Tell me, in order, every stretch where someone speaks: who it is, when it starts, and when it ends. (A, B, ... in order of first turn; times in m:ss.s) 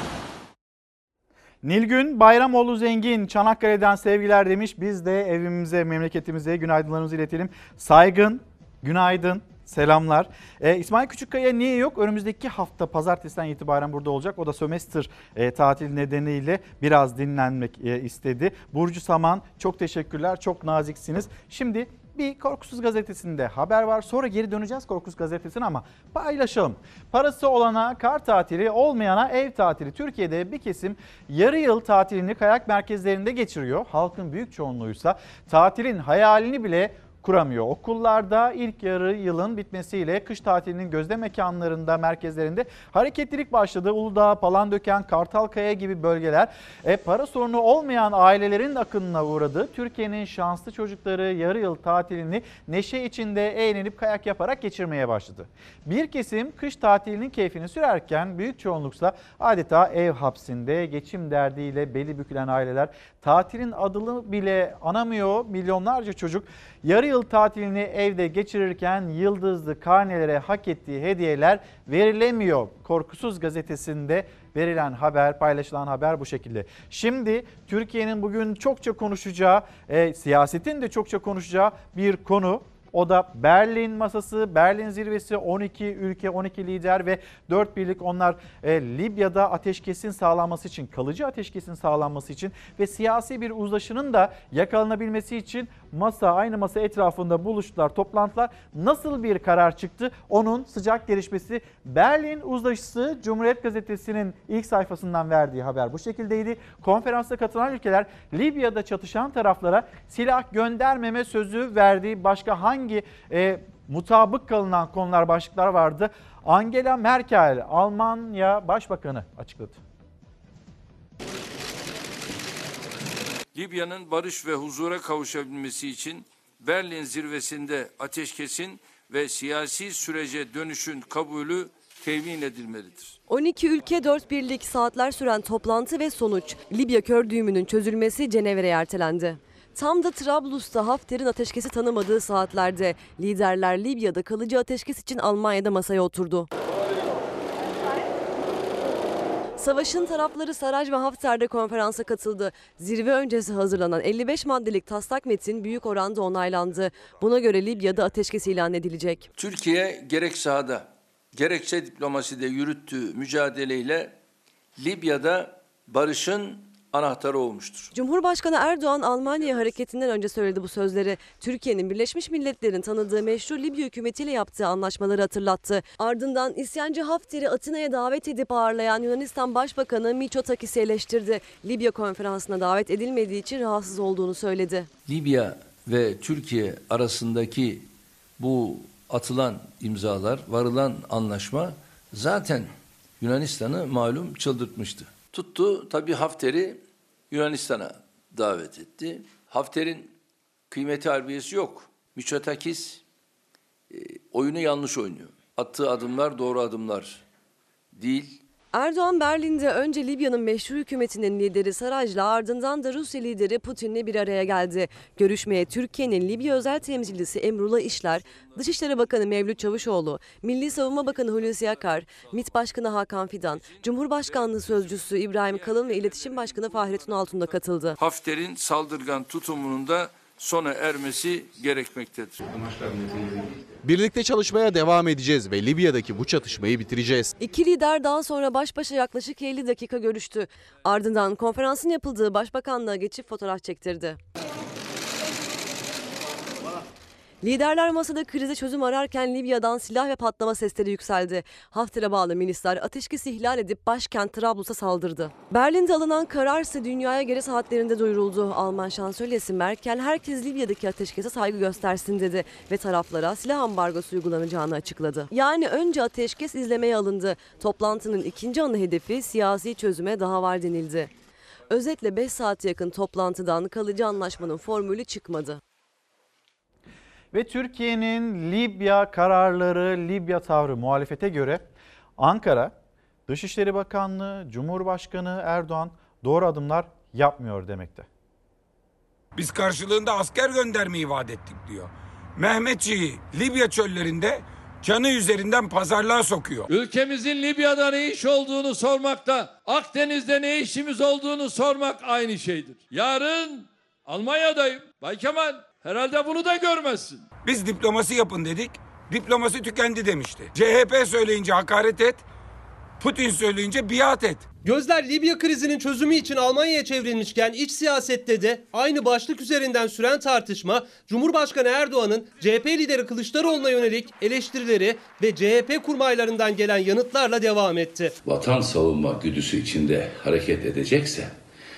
0:01.6-1:59.8 A
2:03.5-2:13.2 B
2:13.3-2:26.5 C
2:29.6-2:39.3 C
2:39.4-2:44.1 B
2:44.8-2:47.9 B
2:47.9-3:04.9 C
3:05.1-3:07.9 B
3:08.4-3:20.1 B
3:20.7-3:23.0 B
3:23.9-3:27.2 B
3:27.9-3:28.4 B
3:28.7-3:48.0 C
3:48.0-3:52.5 B
3:53.8-3:57.4 D
3:57.4-4:04.2 C
4:07.4-4:31.1 C
4:31.7-4:35.6 C
4:37.3-4:41.6 A
4:42.2-4:42.7 A
4:43.3-4:48.1 A
4:49.4-4:56.7 E
4:56.7-5:07.2 F
5:07.4-5:12.2 E
5:13.0-5:14.4 E
5:14.6-5:28.1 G
5:28.2-5:31.3 H